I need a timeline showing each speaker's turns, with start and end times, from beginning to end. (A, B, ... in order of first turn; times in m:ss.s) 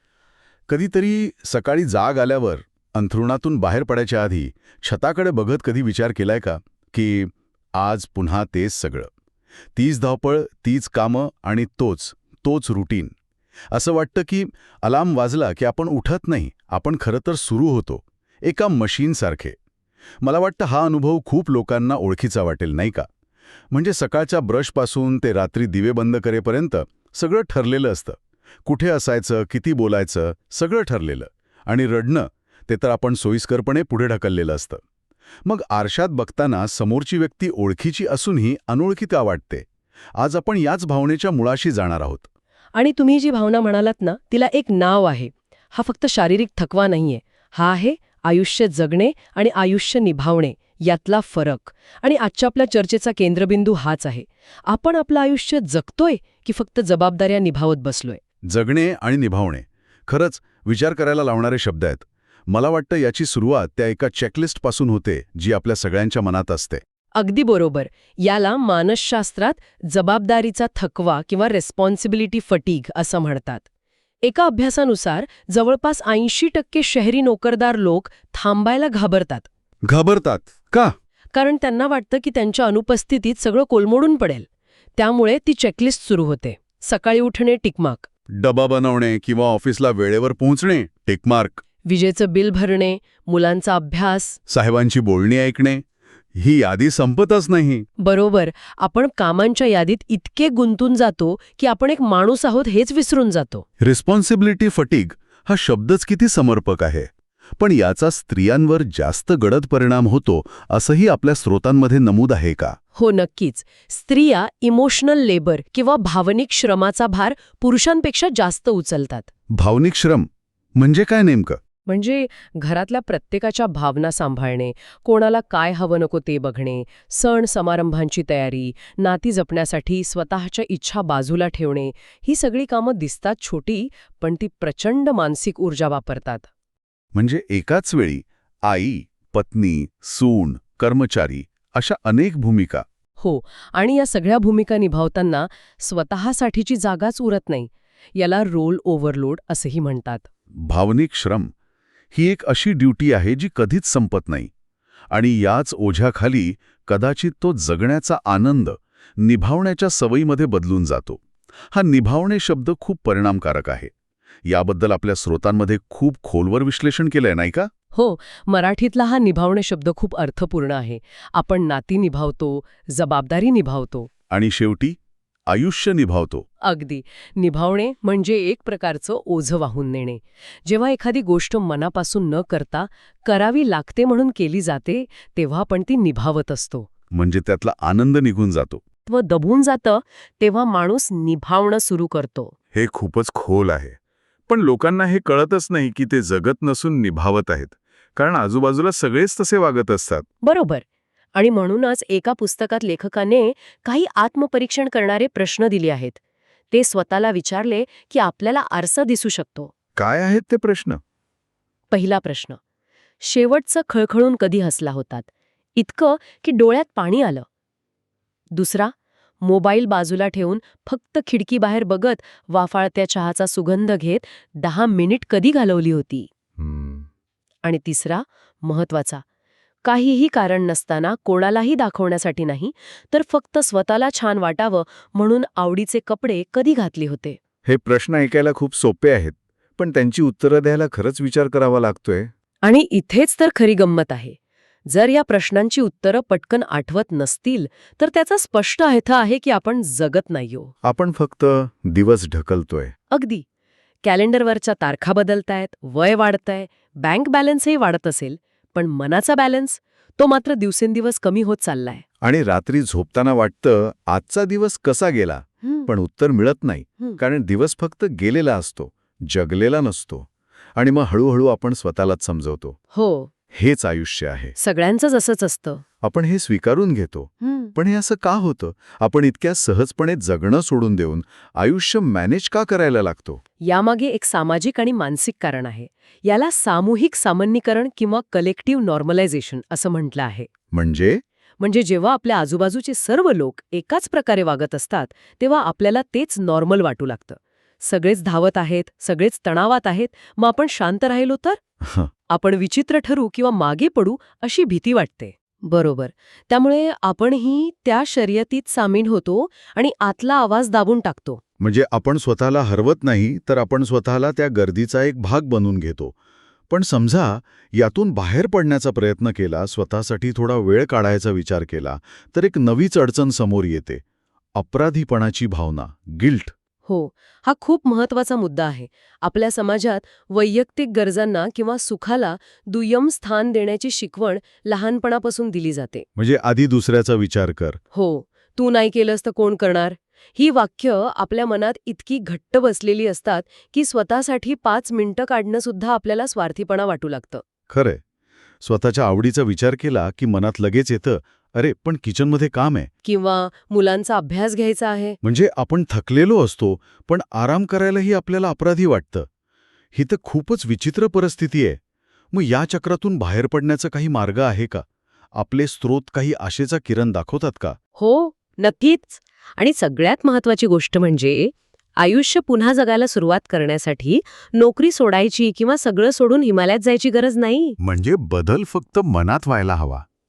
0:00.7-0:09.1 A
0:09.8-0:13.1 A
0:13.7-0:19.6 A
0:20.2-0:23.1 A
0:23.7-0:34.8 A
0:35.4-0:42.3 A
0:42.7-0:58.2 B
0:58.4-1:06.8 A
1:07.2-1:13.6 B
1:14.2-1:19.5 B
1:19.9-1:21.0 A
1:21.3-1:24.4 B
1:25.0-1:28.1 B
1:28.4-1:31.6 A
1:31.9-1:34.4 B
1:34.5-1:37.9 A
1:38.0-1:43.6 B
1:43.8-1:52.8 A
1:53.0-1:59.3 B
1:59.5-2:01.6 A
2:01.9-2:16.5 B
2:17.1-2:22.8 A
2:23.2-2:30.3 B
2:30.6-2:31.5 A
2:32.1-2:34.5 A
2:35.1-2:43.9 A
2:44.4-2:47.7 A
2:47.9-2:54.1 B
2:54.3-2:55.0 A
2:55.5-2:56.4 A
2:56.6-3:06.9 B
3:07.1-3:08.8 A
3:09.1-3:12.5 B
3:12.7-3:20.2 A
3:20.4-3:20.8 B
3:21.3-3:26.2 B
3:26.7-3:29.7 B
3:30.0-3:31.0 A
3:31.9-3:32.6 B
3:33.2-3:37.4 B
3:38.5-3:46.3 B
3:46.6-3:47.1 A
3:47.6-3:49.2 B
3:49.8-3:57.4 B
3:57.6-4:02.3 A
4:02.6-4:10.7 B
4:10.8-4:12.9 A
4:13.1-4:13.4 B
4:14.0-4:22.0 B
4:22.2-4:32.8 A
4:32.9-4:33.3 B
4:33.5-4:34.6 A
4:34.6-4:35.8 B
4:36.0-4:43.4 A
4:37.4-4:37.7 B
4:43.6-4:50.5 B
4:50.7-4:51.2 A
4:51.6-5:01.6 B
5:01.8-5:02.1 A
5:02.3-5:11.4 B
5:11.6-5:16.2 A
5:16.7-5:24.0 A
5:24.6-5:26.5 A
5:26.8-5:36.1 B
5:36.2-5:37.8 A
5:37.9-5:47.4 B
5:47.7-5:48.0 A
5:48.6-5:52.9 A
5:53.0-5:55.2 B
5:55.2-5:59.3 A
5:59.9-6:01.8 A
6:02.3-6:07.8 A
6:08.0-6:17.8 B
6:17.8-6:20.0 A